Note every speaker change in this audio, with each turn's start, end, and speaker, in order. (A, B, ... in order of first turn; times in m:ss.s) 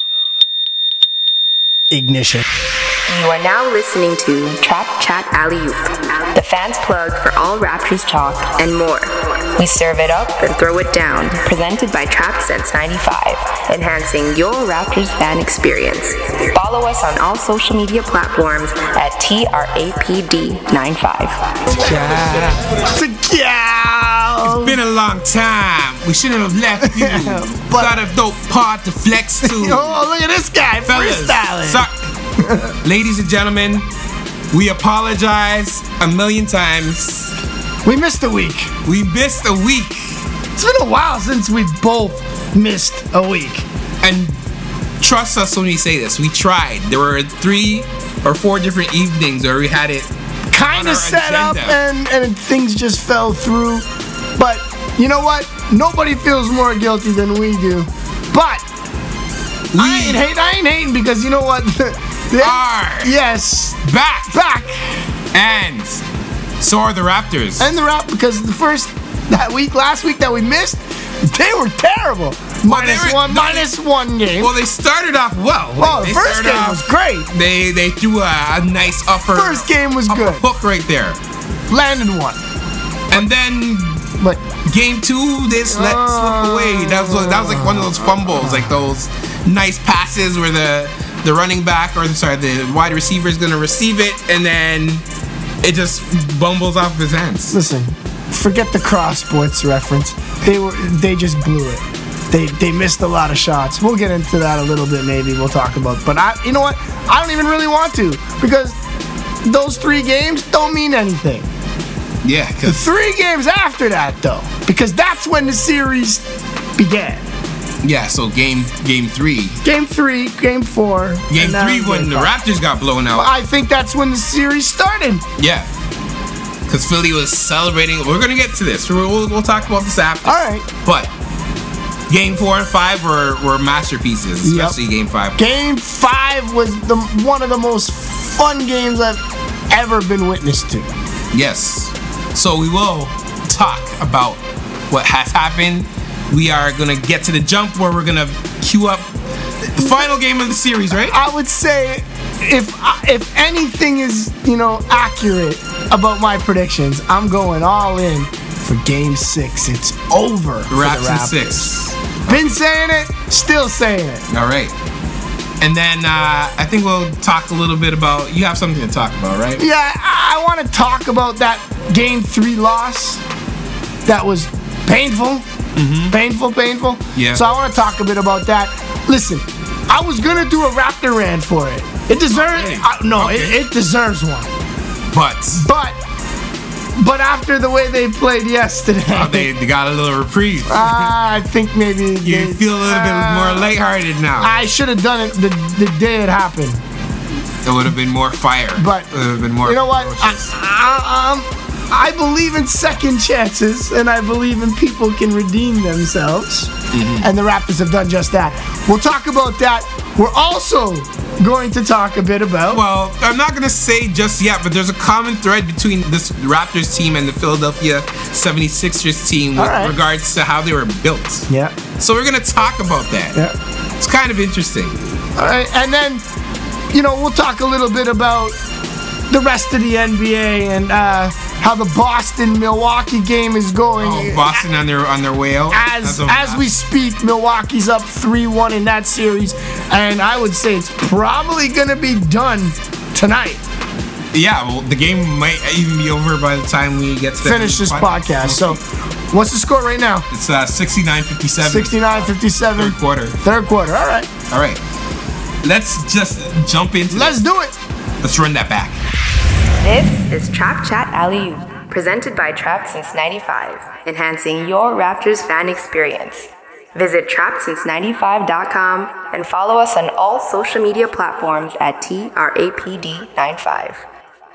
0:01.9-0:02.5 A
0:03.1-0:21.6 B
0:22.0-0:24.8 A
0:24.4-0:30.0 C
0:26.8-0:28.0 A
0:29.4-0:31.9 A
0:30.8-0:31.9 C
0:32.4-0:32.7 A
0:32.8-0:33.9 C
0:34.5-0:37.4 C
0:37.8-0:38.7 A
0:38.8-0:40.2 C
0:40.6-0:43.7 A
0:44.0-0:44.4 C
0:45.0-0:50.1 C
0:50.5-0:58.6 A
0:50.7-0:51.8 C
0:59.7-1:00.2 C
0:59.8-1:05.0 A
1:02.4-1:03.1 C
1:03.8-1:04.3 C
1:05.3-1:06.0 C
1:06.6-1:07.7 C
1:07.6-1:14.5 A
1:12.6-1:13.7 C
1:14.4-1:21.2 C
1:15.8-1:17.3 A
1:19.3-1:20.4 A
1:21.7-1:22.4 A
1:23.1-1:35.0 C
1:25.7-1:28.8 A
1:35.6-1:37.6 C
1:37.5-1:48.8 A
1:49.4-1:51.5 A
1:52.2-1:52.9 C
1:52.6-1:56.2 A
1:56.8-1:57.2 A
1:57.8-1:59.6 C
1:59.6-2:02.3 A
2:01.3-2:03.3 C
2:03.1-2:05.2 A
2:05.4-2:05.7 C
2:06.7-2:11.1 C
2:10.3-2:10.6 A
2:12.1-2:15.4 C
2:14.4-2:14.8 A
2:15.4-2:20.9 A
2:21.3-2:29.1 C
2:29.8-2:31.2 C
2:29.8-2:30.0 A
2:31.1-2:41.7 A
2:40.7-2:42.6 C
2:42.3-2:44.2 A
2:44.3-2:44.7 C
2:45.6-2:49.6 C
2:49.6-2:53.2 A
2:54.1-2:55.5 A
2:55.8-2:56.2 C
2:56.1-3:04.5 A
2:57.2-2:57.4 C
3:02.3-3:03.6 C
3:05.1-3:05.7 C
3:05.6-3:06.0 A
3:07.0-3:09.5 A
3:09.1-3:11.1 C
3:10.7-3:13.7 A
3:12.2-3:14.5 C
3:14.4-3:16.8 A
3:17.6-3:20.5 C
3:18.8-3:19.1 A
3:19.6-3:32.8 A
3:26.9-3:27.3 C
3:32.7-3:41.5 C
3:39.6-3:39.9 A
3:41.5-3:41.8 A
3:42.0-3:43.4 C
3:44.0-3:45.0 C
3:45.4-3:46.2 A
3:46.9-3:48.6 A
3:49.3-3:54.6 A
3:54.0-3:56.7 C
3:55.7-4:03.6 A
4:04.3-4:08.8 C
4:07.4-4:08.8 A
4:09.3-4:10.3 A
4:10.3-4:13.4 C
4:11.6-4:14.3 A
4:14.5-4:14.8 C
4:15.6-4:17.4 C
4:17.1-4:17.8 A
4:18.2-4:19.0 C
4:19.8-4:34.0 B